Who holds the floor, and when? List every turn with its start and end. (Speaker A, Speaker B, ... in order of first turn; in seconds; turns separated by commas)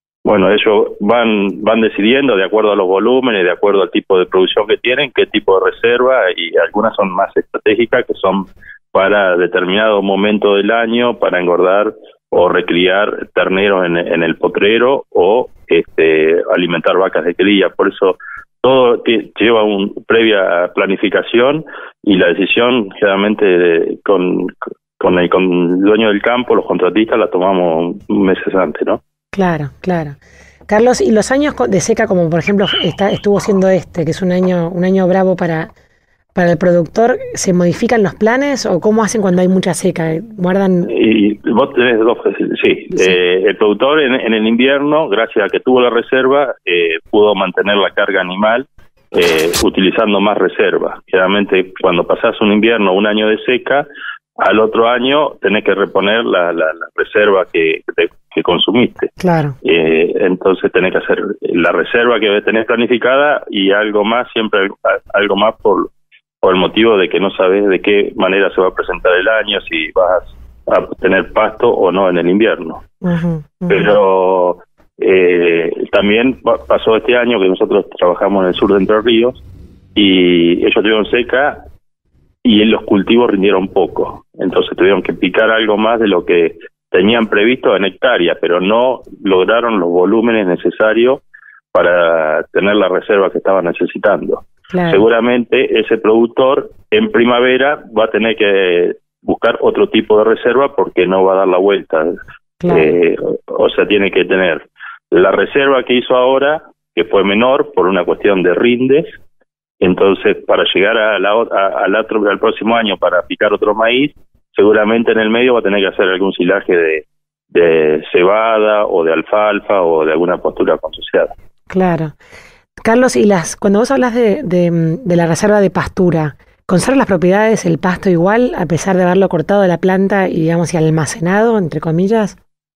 Speaker A: 0.2-29.0, Speaker B: 29.3-30.2, Speaker B: 30.7-35.7, Speaker B: 36.4-40.9, Speaker A: 40.9-53.9, Speaker A: 54.4-59.1, Speaker B: 59.2-59.6, Speaker A: 59.6-65.9, Speaker A: 66.4-72.8, Speaker B: 73.0-74.0, Speaker A: 73.7-79.4, Speaker A: 80.0-81.6, Speaker A: 82.4-91.2, Speaker A: 91.7-102.1, Speaker B: 94.7-95.0, Speaker B: 102.6-102.9, Speaker A: 102.7-109.2, Speaker A: 109.8-121.3, Speaker B: 121.7-122.2, Speaker B: 122.8-132.4